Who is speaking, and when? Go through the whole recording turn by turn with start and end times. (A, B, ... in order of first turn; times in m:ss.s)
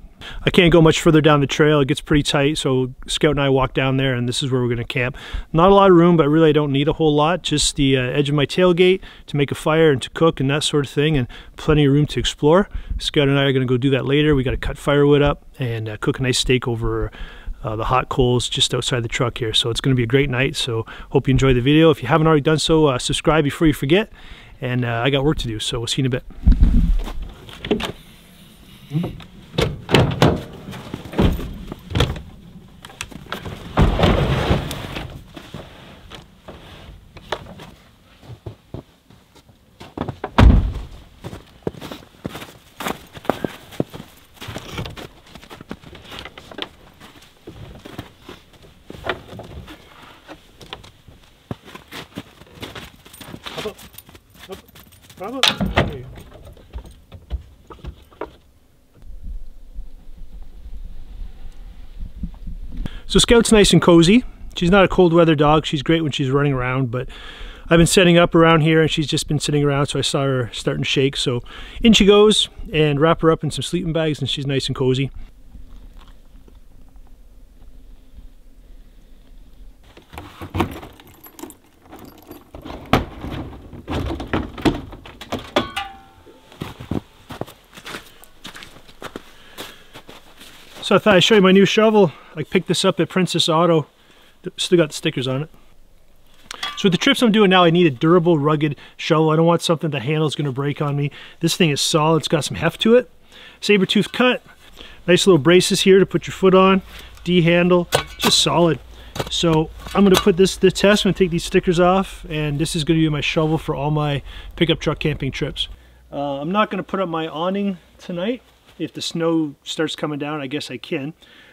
0:00.4-0:26.3 A
0:55.2-0:56.1 A
1:03.1-1:07.1 A
1:07.7-1:15.1 A
1:30.8-1:33.9 A
1:34.4-1:35.5 A
1:36.7-1:44.4 A
1:45.0-2:01.1 A